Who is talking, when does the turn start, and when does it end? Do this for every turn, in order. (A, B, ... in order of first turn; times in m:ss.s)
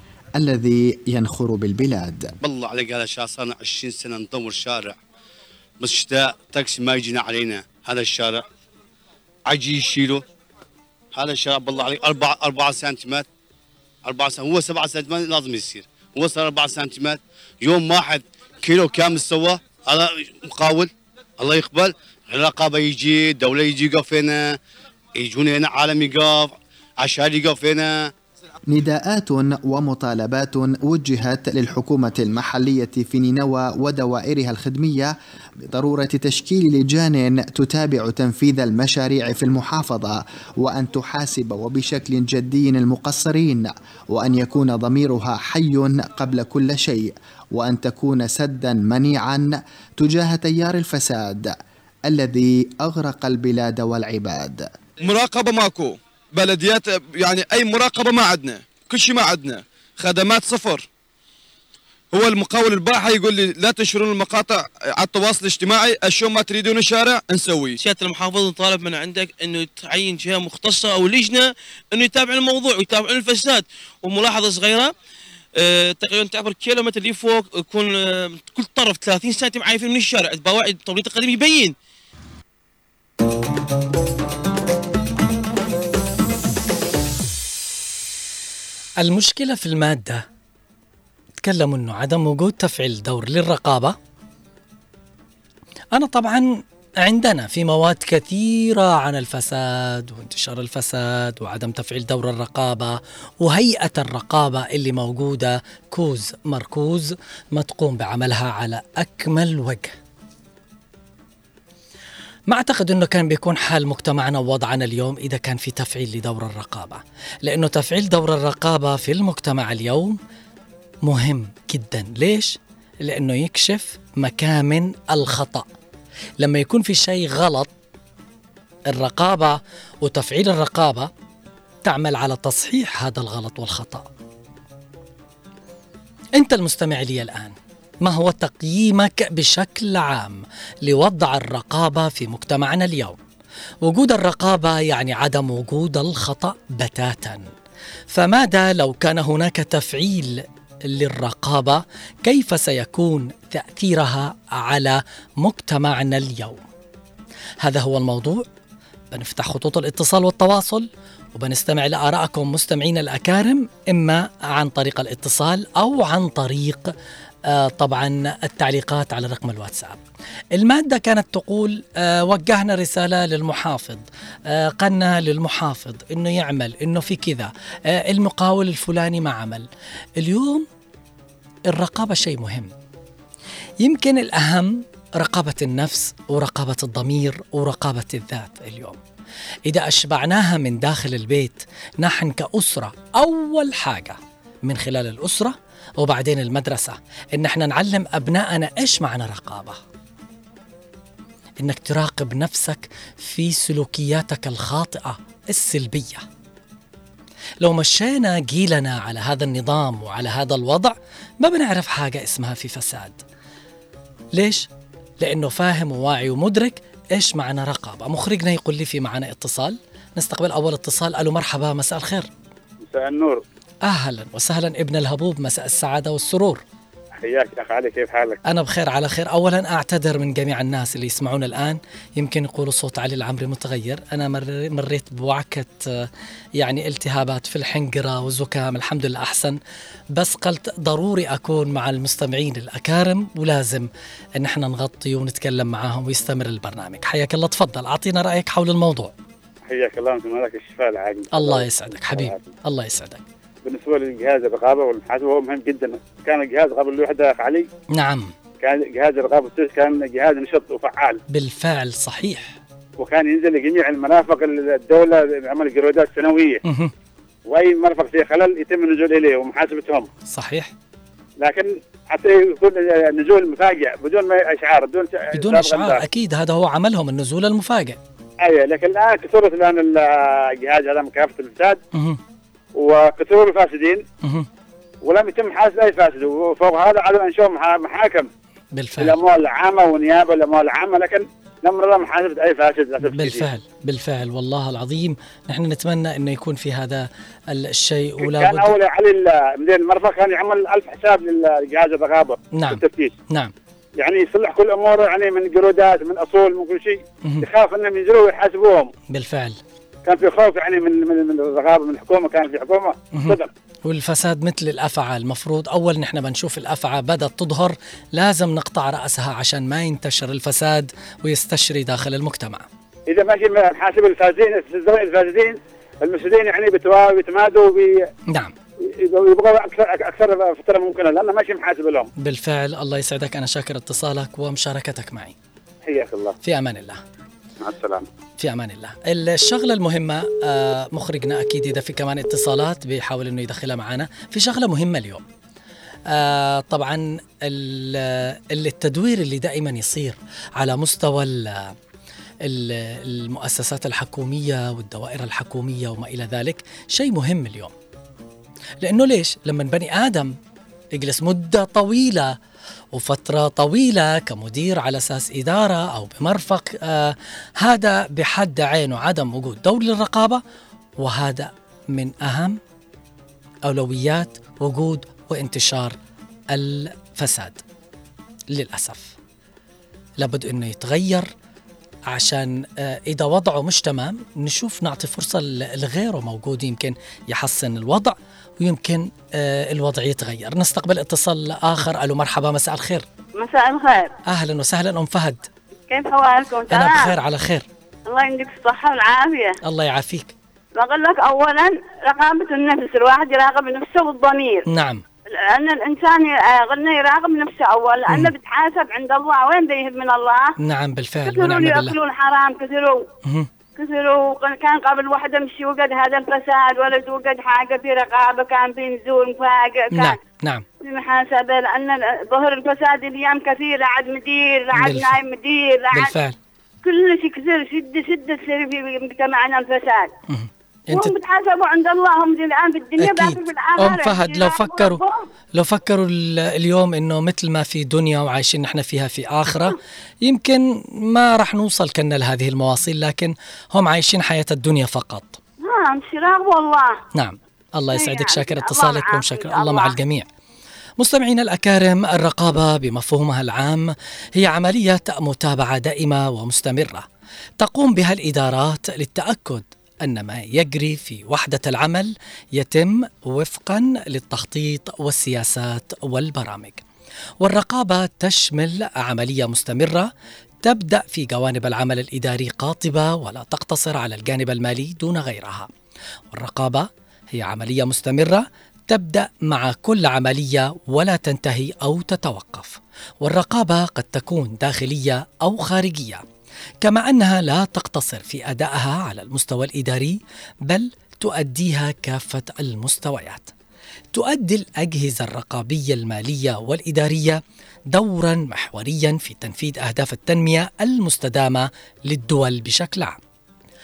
0:00.4-0:02.3 A
0:02.4-0:05.0 B
0:05.8-0:08.4 B
0:09.5-0:10.2 B
0:11.2-0:13.3 B
0:14.1-0:24.6 B
0:25.2-0:28.0 B
0:28.7-0:35.1 A
0:35.7-0:51.6 A
0:52.1-0:54.7 A
0:55.0-1:00.9 C
1:02.1-1:07.8 C
1:07.8-1:14.9 D
1:15.6-1:21.8 D
1:29.0-1:30.2 E
1:31.4-1:34.0 E
1:35.9-1:50.0 E
1:52.5-2:00.2 E
2:01.0-2:05.7 E
2:06.4-2:07.7 E
2:08.9-2:11.1 E
2:11.8-2:14.1 E
2:16.4-2:23.2 E
2:23.8-2:27.5 E
2:28.1-2:36.6 E
2:37.6-2:38.5 E
2:39.1-2:46.9 E
2:47.5-2:50.0 E
2:50.6-2:59.7 E
3:00.2-3:00.7 E
3:01.7-3:02.7 E
3:03.8-3:09.0 E
3:09.7-3:19.8 E
3:21.6-3:26.2 E
3:27.6-3:33.2 E
3:34.4-3:34.7 E
3:35.2-3:42.3 E
3:42.8-3:43.4 F
3:43.8-3:46.6 E
3:47.2-3:48.4 F
3:48.5-3:59.6 E
4:00.1-4:09.1 E
4:09.6-4:12.5 F
4:11.3-4:13.2 E
4:13.6-4:17.7 F
4:18.0-4:18.3 E
4:18.6-4:21.2 F
4:21.3-4:22.6 E
4:23.0-4:26.6 F
4:26.7-4:26.9 E
4:27.5-4:30.1 F
4:30.3-4:30.7 E
4:31.4-4:36.0 F
4:35.3-4:38.0 E
4:38.4-4:41.8 F
4:41.9-4:42.2 E
4:42.8-4:44.0 F
4:45.0-4:48.3 F
4:48.7-4:49.2 E
4:49.0-4:53.5 F
4:53.0-4:58.8 E
4:58.2-5:03.1 F
5:02.5-5:03.5 E
5:04.0-5:08.9 F
5:09.1-5:09.6 E
5:10.1-5:13.5 F
5:13.2-5:22.6 E
5:23.1-5:28.0 F
5:28.9-5:32.1 F
5:32.2-5:35.4 E
5:35.8-5:36.4 F
5:36.4-5:37.0 E
5:37.6-5:38.1 F
5:38.4-5:45.2 E
5:46.1-5:51.8 E
5:52.4-5:57.7 E
5:58.8-6:00.3 E
6:01.0-6:02.4 E
6:02.9-6:10.4 E
6:11.0-6:12.6 E
6:13.7-6:16.0 E
6:16.5-6:17.6 E
6:18.5-6:19.2 E
6:20.2-6:21.3 E
6:22.1-6:33.0 E
6:33.4-6:34.1 G
6:34.3-6:35.4 E
6:35.9-6:37.1 G
6:36.7-6:37.7 E
6:38.1-6:39.6 G
6:39.6-6:40.3 E
6:40.8-6:44.7 G
6:44.7-6:45.0 E
6:45.3-6:50.6 G
6:50.6-6:52.0 E
6:51.3-6:53.0 G
6:53.8-7:00.2 G
6:59.9-7:00.6 E
7:00.8-7:06.1 G
7:04.7-7:05.2 E
7:05.9-7:06.4 E
7:06.8-7:10.1 G
7:10.3-7:11.1 E
7:10.9-7:15.3 G
7:13.0-7:15.0 E
7:15.6-7:25.4 E
7:25.6-7:27.0 G
7:27.2-7:30.3 E
7:27.9-7:30.0 G
7:31.0-7:37.0 E
7:37.6-7:46.8 E
7:47.4-7:50.1 E
7:50.6-7:55.7 E
7:56.3-8:06.2 E
8:06.8-8:13.5 E
8:14.1-8:23.2 E